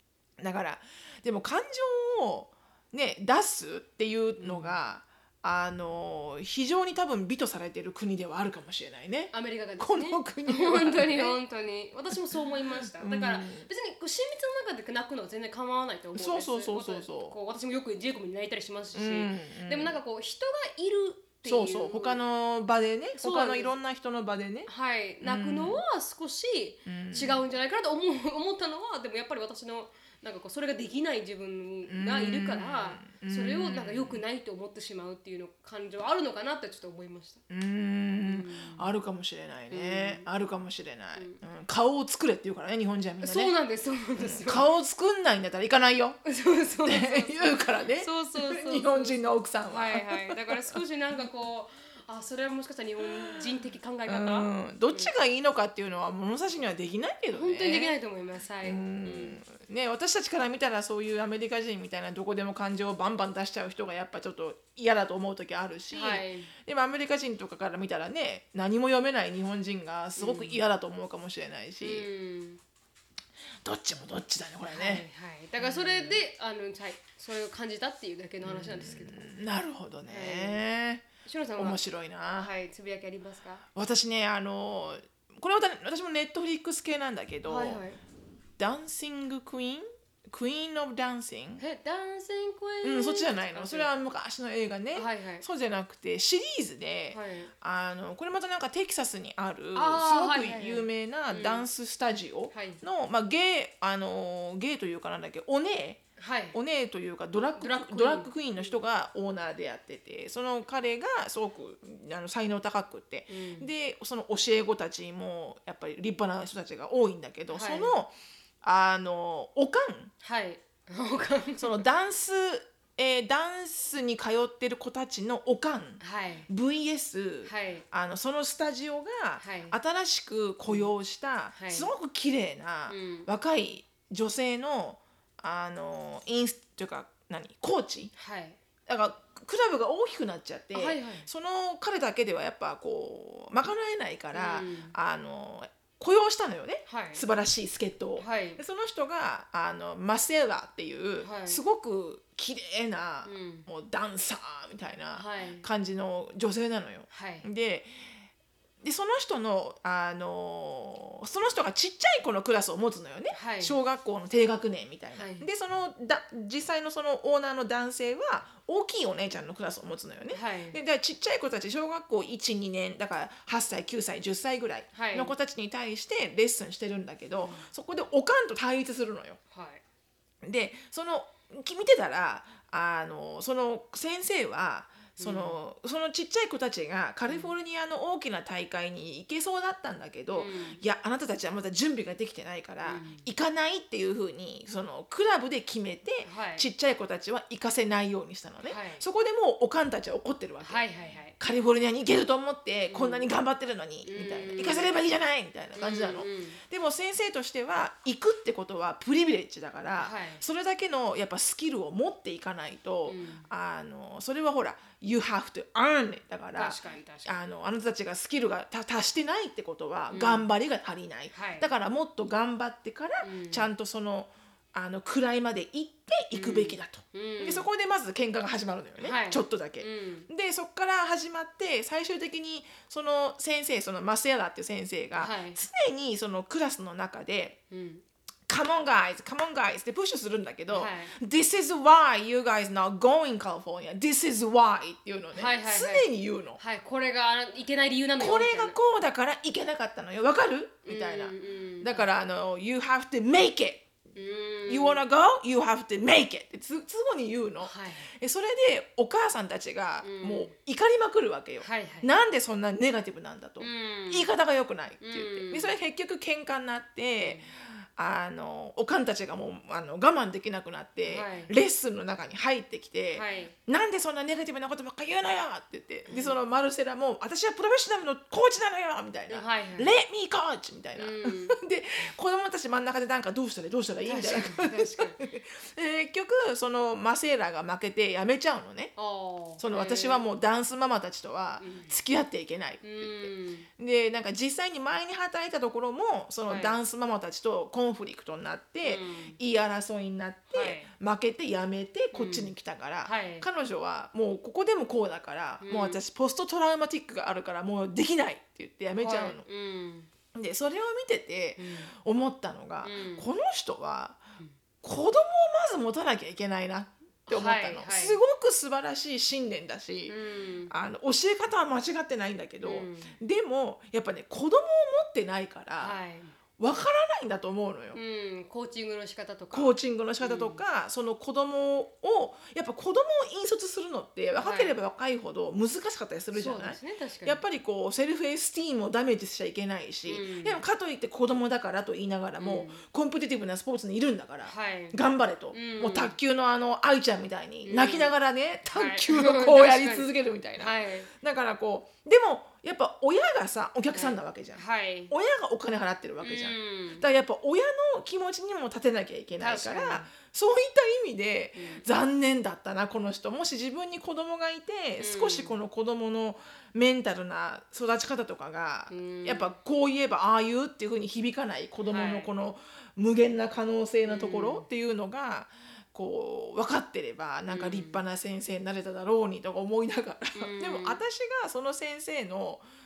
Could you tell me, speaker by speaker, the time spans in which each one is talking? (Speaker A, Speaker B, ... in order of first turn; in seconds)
Speaker A: 0.4-11.4, 12.1-13.7, 16.1-17.4, 18.9-20.0, 21.4-24.7, 25.2-25.8, 26.9-27.4, 31.9-34.2, 37.5-43.5, 44.2-46.2, 46.9-50.8, 53.1-53.5, 54.1-57.9, 58.6-72.1, 73.6-75.1, 75.6-76.2, 78.4-81.1, 81.6-82.5, 83.8-87.8, 88.6-91.6, 92.8-120.1, 121.6-138.1, 138.9-157.9, 158.8-179.4, 180.4-200.8, 201.4-237.6, 238.5-246.6, 248.2-253.9, 254.7-288.9, 289.6-309.4, 310.3-314.2, 314.8-320.1, 320.7-326.0, 326.6-328.0, 329.5-382.6
Speaker B: 4.4-4.8, 9.3-22.2, 23.2-23.8, 24.7-37.4, 38.2-38.9, 39.7-40.3, 41.2-41.4, 43.2-44.7, 46.2-55.1, 57.3-59.4, 65.9-66.5, 70.2-70.6, 71.8-72.6, 74.7-79.3, 80.1-80.6, 81.2-81.8, 82.3-83.7, 87.5-88.0, 91.6-93.9, 94.9-95.5, 97.1-97.5, 99.8-101.7, 102.5-102.8, 106.2-106.6, 107.6-108.3, 113.3-113.7, 117.5-118.0, 120.2-121.8, 126.0-126.5, 127.5-127.8, 129.4-129.8, 131.5-131.9, 132.9-133.3, 138.2-138.6, 140.8-141.3, 144.3-144.9, 146.9-147.2, 148.2-148.6, 151.2-151.6, 153.2-153.7, 155.2-155.7, 157.1-157.5, 163.3-163.8, 165.2-165.5, 170.3-170.8, 174.9-175.3, 177.4-177.7, 179.5-179.8, 185.2-185.6, 187.3-187.5, 190.3-190.8, 192.8-193.3, 196.2-196.7, 198.7-199.1, 200.6-201.3, 202.9-203.2, 204.0-204.9, 205.8-206.6, 210.0-210.4, 213.1-213.5, 216.6-217.4, 220.1-220.5, 221.3-221.7, 223.2-223.7, 226.3-227.7, 229.0-230.3, 235.2-235.6, 237.7-238.0, 240.7-241.2, 245.3-248.8, 250.8-252.1, 254.2-255.0, 257.6-258.1, 260.0-260.5, 261.6-262.1, 263.6-264.3, 265.0-265.7, 267.2-267.5, 271.1-271.5, 273.1-273.6, 276.1-276.4, 279.3-279.9, 281.0-281.6, 284.1-285.2, 289.0-290.2, 291.6-291.9, 292.8-293.7, 296.5-296.8, 298.8-299.4, 300.5-300.9, 302.1-303.5, 305.6-306.0, 309.0-310.1, 311.6-311.9, 312.8-313.3, 317.3-318.2, 320.1-320.7, 322.6-323.2, 325.8-326.4, 327.9-330.6, 334.4-334.8, 336.3-337.4, 340.1-340.6, 342.4-342.8, 344.5-345.0, 345.5-346.2, 347.6-348.1, 348.7-351.1, 353.9-355.1, 356.2-357.1, 359.4-360.1, 361.6-361.8, 365.0-365.6, 368.9-369.6, 371.9-372.3, 374.1-374.7, 377.5-378.0, 380.4-381.0